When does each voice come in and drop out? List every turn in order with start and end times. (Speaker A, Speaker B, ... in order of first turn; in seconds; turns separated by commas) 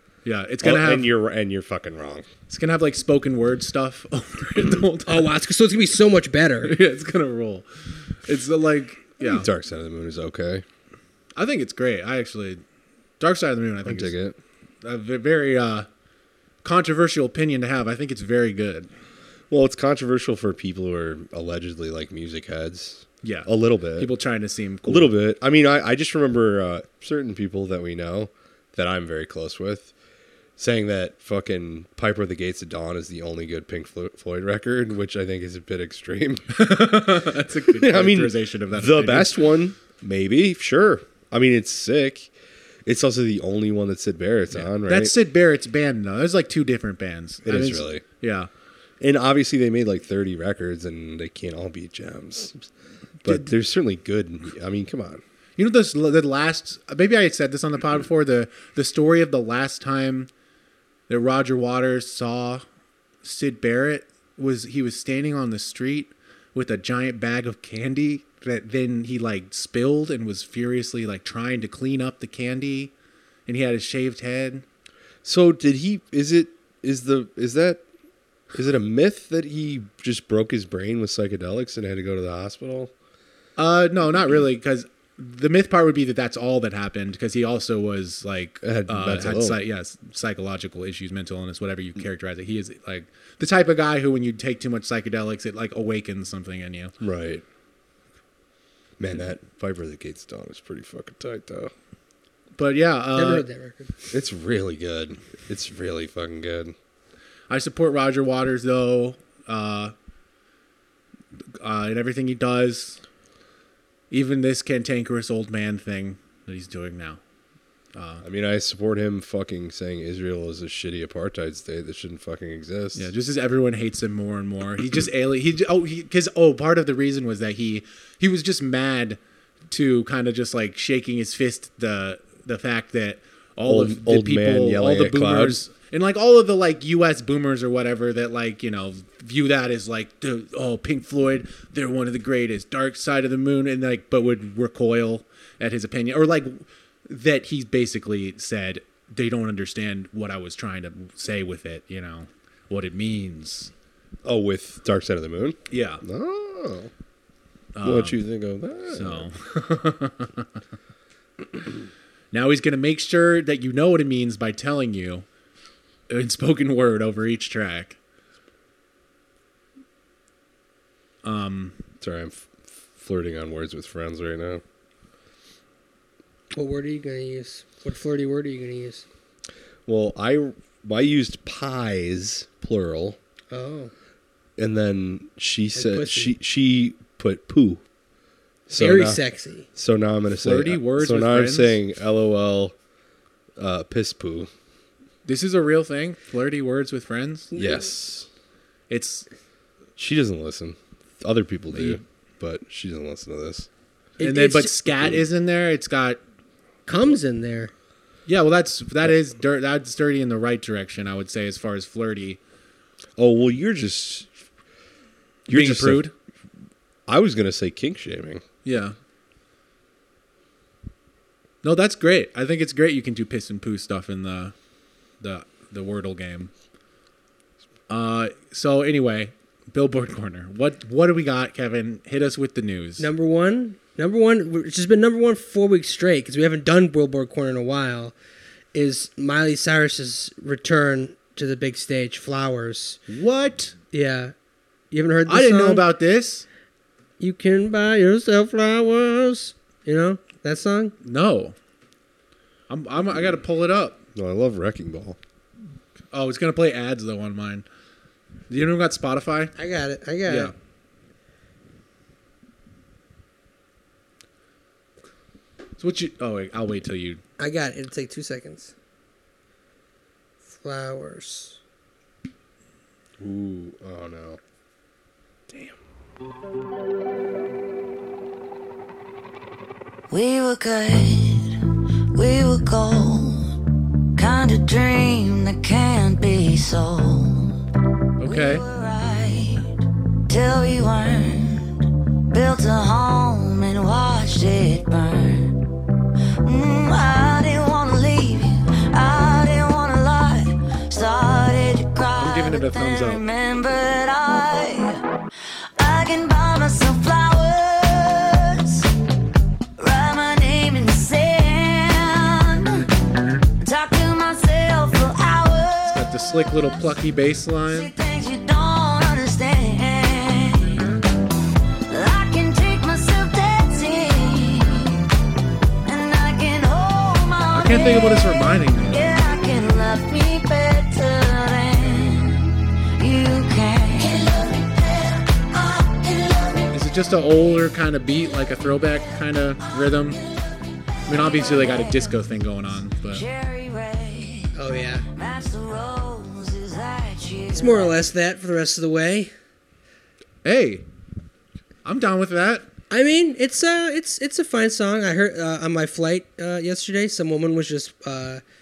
Speaker A: 0.2-1.1, Speaker B: 0.6-2.3, Speaker A: 2.5-5.3, Speaker C: 5.1-6.7, Speaker A: 6.6-7.7, Speaker A: 8.2-9.5, Speaker B: 9.2-10.6, Speaker A: 11.4-12.6, Speaker A: 13.2-14.1, Speaker B: 13.8-14.4, Speaker A: 14.8-15.9, Speaker A: 16.6-18.9, Speaker B: 19.5-24.1, Speaker A: 23.2-25.1, Speaker B: 24.9-29.9, Speaker B: 30.6-36.6, Speaker A: 36.5-39.5, Speaker B: 37.8-42.3, Speaker B: 42.8-45.1, Speaker A: 44.5-48.5, Speaker B: 47.5-48.0, Speaker B: 49.0-52.6, Speaker B: 53.2-55.2, Speaker A: 55.6-60.3, Speaker A: 61.1-62.6, Speaker A: 63.2-72.9, Speaker A: 73.5-74.6, Speaker B: 75.2-77.8, Speaker B: 78.5-82.9, Speaker A: 83.6-96.9, Speaker B: 88.6-89.6, Speaker B: 97.0-97.4, Speaker B: 99.0-101.7, Speaker A: 102.6-103.5, Speaker C: 103.2-103.9, Speaker B: 104.1-106.7, Speaker A: 107.5-109.9, Speaker A: 111.6-113.0, Speaker A: 114.1-117.2, Speaker A: 117.9-118.2, Speaker B: 118.2-123.1, Speaker A: 122.9-129.2, Speaker A: 129.7-153.7, Speaker B: 133.6-135.6, Speaker B: 154.2-156.9, Speaker A: 155.7-156.0, Speaker A: 157.8-158.2, Speaker B: 157.8-159.3, Speaker A: 158.9-160.5, Speaker A: 162.3-165.2, Speaker A: 166.1-168.0, Speaker A: 171.2-171.8, Speaker B: 172.0-174.6, Speaker C: 176.5-179.1, Speaker B: 179.8-183.2, Speaker C: 183.5-183.9, Speaker B: 184.6-187.8, Speaker C: 185.7-186.3, Speaker B: 188.7-189.2, Speaker C: 188.7-189.7, Speaker B: 189.7-192.7, Speaker A: 190.4-191.8, Speaker B: 193.6-194.5, Speaker A: 195.2-197.5, Speaker C: 197.5-197.8, Speaker B: 197.5-198.3, Speaker A: 198.9-199.2, Speaker B: 200.0-203.7, Speaker A: 201.7-202.0, Speaker C: 204.2-204.9, Speaker A: 204.2-206.2, Speaker C: 206.9-207.7, Speaker A: 208.3-212.4, Speaker B: 213.2-214.3, Speaker A: 215.5-216.1, Speaker B: 215.5-216.1, Speaker B: 217.1-218.4, Speaker A: 218.6-218.9, Speaker A: 221.6-224.5, Speaker A: 225.2-226.5, Speaker A: 227.9-233.1, Speaker C: 233.0-238.1, Speaker C: 238.7-243.0, Speaker A: 243.1-243.7, Speaker C: 243.9-244.3, Speaker C: 244.9-245.8, Speaker A: 245.3-246.4, Speaker C: 247.2-250.9, Speaker A: 251.0-251.5, Speaker A: 252.7-254.0, Speaker B: 254.2-255.2, Speaker A: 256.1-257.6, Speaker A: 258.5-259.5, Speaker C: 259.6-260.5, Speaker A: 260.2-260.5, Speaker A: 265.8-267.2, Speaker C: 267.4-268.7, Speaker C: 270.5-271.6, Speaker B: 273.2-274.4, Speaker D: 280.1-281.6, Speaker D: 282.1-283.6, Speaker D: 284.2-287.6, Speaker A: 288.2-288.6, Speaker D: 288.2-295.6, Speaker D: 296.4-305.0, Speaker A: 302.2-303.2, Speaker D: 305.8-308.9, Speaker D: 309.8-312.8, Speaker D: 313.6-316.0, Speaker A: 315.9-317.9, Speaker D: 317.6-320.8, Speaker D: 321.9-325.0, Speaker D: 325.9-336.7, Speaker A: 327.5-329.1, Speaker A: 336.7-340.2, Speaker D: 338.8-342.4, Speaker A: 341.1-343.2, Speaker D: 343.0-348.0, Speaker C: 344.6-345.0, Speaker C: 347.5-349.3, Speaker A: 350.4-350.9, Speaker A: 351.8-352.7, Speaker C: 352.9-358.4